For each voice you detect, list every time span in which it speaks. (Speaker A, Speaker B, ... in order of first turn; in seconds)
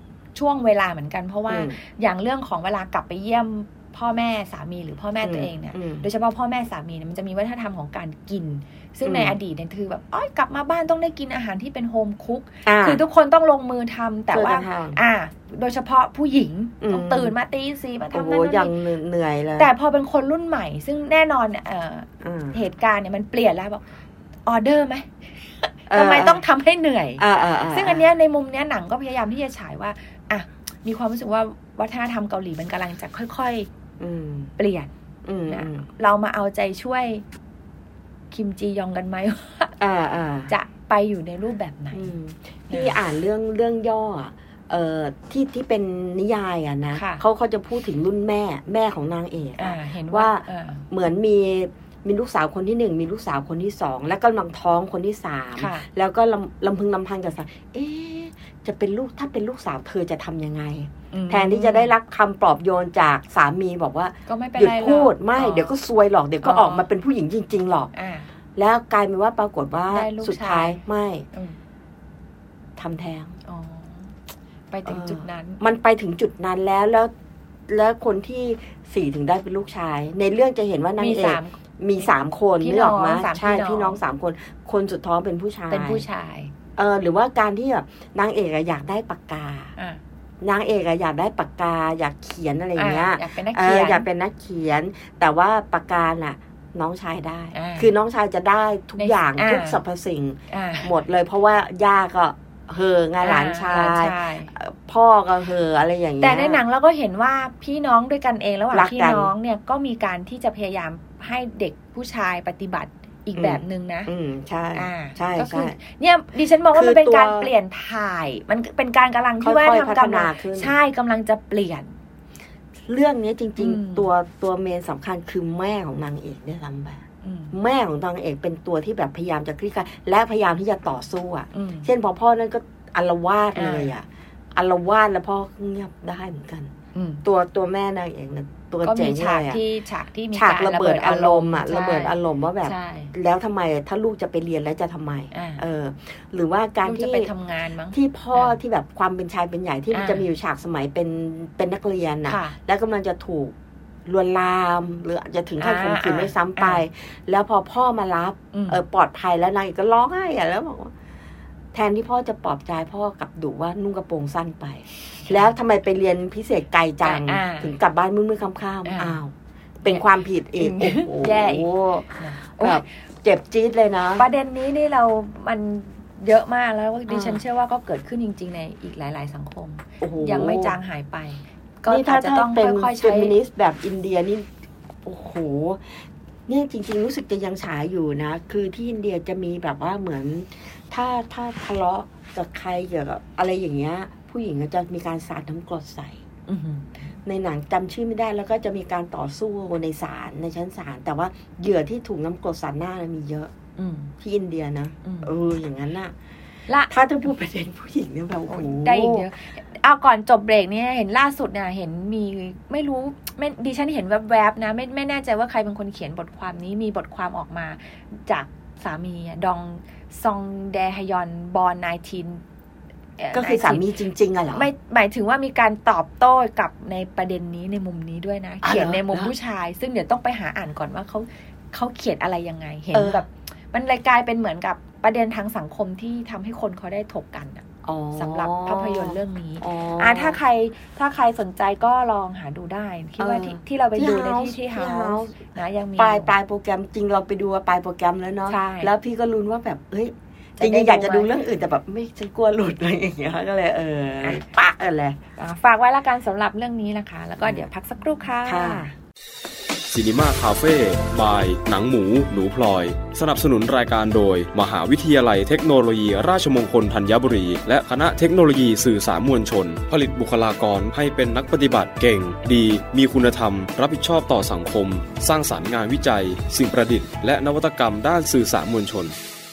Speaker A: 0.3-18.7, 19.6-23.8, 24.4-25.1, 25.6-33.7, 34.6-34.9, 35.5-37.2, 38.3-39.8, 40.5-42.1, 42.7-43.0, 46.9-47.2, 49.6-50.8, 55.5-55.9, 61.1-61.9, 64.3-65.7, 66.4-66.9, 67.9-68.3, 69.9-71.6, 73.4-74.1, 74.7-75.6, 81.0-84.0, 85.7-86.5, 92.8-94.0, 97.5-97.9, 99.0-99.8, 100.5-100.9, 103.2-104.5, 106.2-114.1, 114.7-121.9, 123.6-124.1, 127.2-127.5, 131.5-131.9, 133.5-133.9, 136.9-137.2, 138.8-143.1, 145.3-145.6, 146.8-148.6, 149.9-150.3, 152.3-152.6, 155.6-156.8, 158.5-158.8, 167.0-167.8, 168.8-169.2, 170.6-172.8, 174.2-183.4, 196.5-197.1, 203.8-204.1, 205.0-205.3, 208.5-222.4, 223.2-223.9, 224.5-237.6, 238.2-246.3, 248.5-248.9, 250.6-251.3, 255.4-258.9
Speaker B: 1.5-1.8, 5.2-6.0, 9.0-9.4, 12.7-13.0, 14.3-15.0, 16.8-17.3, 18.1-19.7, 22.2-22.6, 25.9-26.4, 27.2-28.0, 34.0-34.5, 35.2-35.9, 39.8-40.5, 41.9-67.9, 68.5-71.2, 72.8-73.3, 74.8-77.1, 77.7-86.0, 86.8-89.7, 90.4-106.6, 108.7-109.3, 113.4-115.8, 116.7-117.5, 119.4-120.7, 122.9-136.7, 137.2-139.6, 140.3-147.3, 147.9-153.5, 154.1-160.9, 161.7-174.2, 177.1-177.4, 180.0-180.8, 181.9-184.5, 185.0-196.2, 197.2-203.5, 204.2-206.1, 206.9-209.3, 223.3-224.7, 228.6-229.3, 232.9-233.2, 237.8-240.4, 243.2-245.4, 246.0-255.2, 257.4-257.7, 258.4-258.9
Speaker C: 259.9-279.1